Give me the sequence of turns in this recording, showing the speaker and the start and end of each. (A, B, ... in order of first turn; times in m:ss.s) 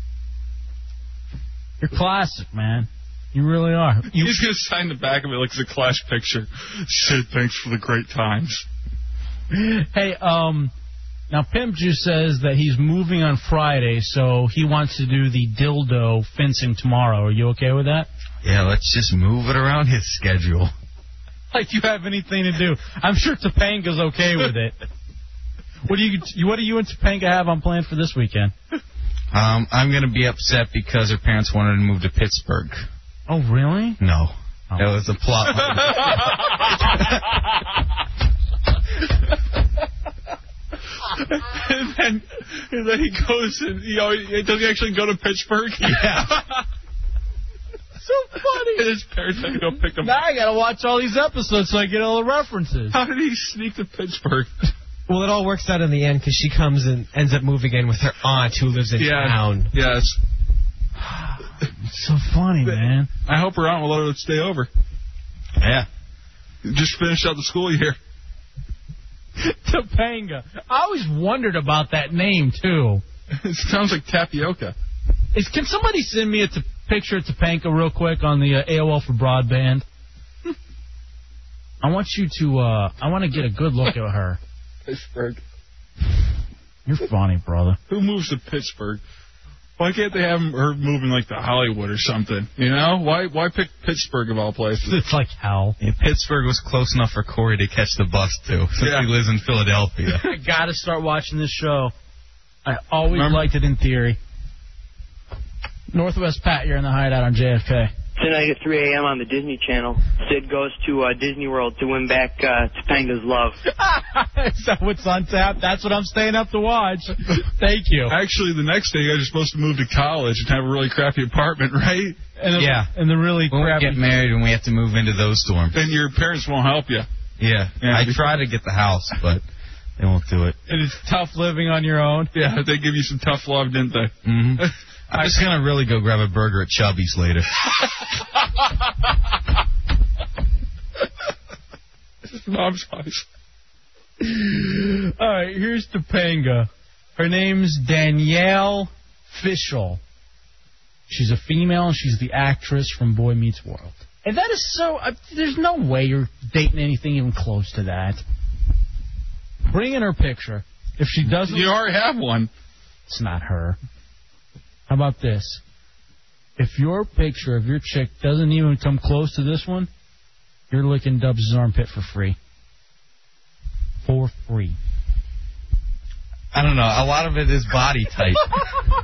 0:01.8-0:04.4 A
0:04.1-0:08.6 B
0:09.5-0:10.7 A
0:11.3-0:18.1 A
0:18.4-0:20.7 C
0:21.5-0:24.8 A
0:25.8-0:28.5 A
0:29.3-0:32.8 C
0:33.3-0:34.0 A
0:34.0-0:37.0 C
0:35.6-0:36.7 B
0:41.2-0:46.6 B
0:48.0-0:48.8 A
0:48.7-0:50.2 B
0:50.0-0:53.0 A
0:52.9-0:54.5 B
0:55.1-0:59.7 D
0:59.0-1:00.2 B
1:01.0-1:03.1 A
1:03.2-1:04.7 B
1:05.6-1:05.9 C
1:06.6-1:08.0 B
1:09.4-1:13.0 A
1:13.4-1:14.7 B
1:15.3-1:19.8 A
1:21.8-1:24.4 A
1:24.9-1:25.4 B
1:26.8-1:27.8 A
1:27.9-1:29.0 B
1:29.8-1:35.0 B
1:34.8-1:35.8 A
1:35.8-1:40.2 C
1:38.8-1:39.1 B
1:40.1-1:41.9 A
1:42.6-1:44.2 A
1:43.1-1:43.4 B
1:45.9-1:47.9 A
1:48.2-1:53.6 E
1:53.7-1:58.1 A
1:58.1-2:02.2 B
2:02.4-2:04.0 A
2:02.5-2:02.9 C
2:03.5-2:05.8 C
2:05.7-2:07.1 B
2:07.4-2:09.4 C
2:07.8-2:08.3 B
2:10.0-2:10.6 C
2:10.7-2:12.3 A
2:12.3-2:14.7 B
2:14.2-2:17.5 C
2:22.2-2:23.2 B
2:24.2-2:30.0 A
2:31.1-2:38.2 A
2:39.7-2:41.7 A
2:41.2-2:42.5 B
2:43.1-2:43.8 A
2:44.9-2:45.6 A
2:46.6-2:49.9 A
2:50.7-2:52.4 A
2:54.0-2:54.8 A
2:56.5-2:58.4 C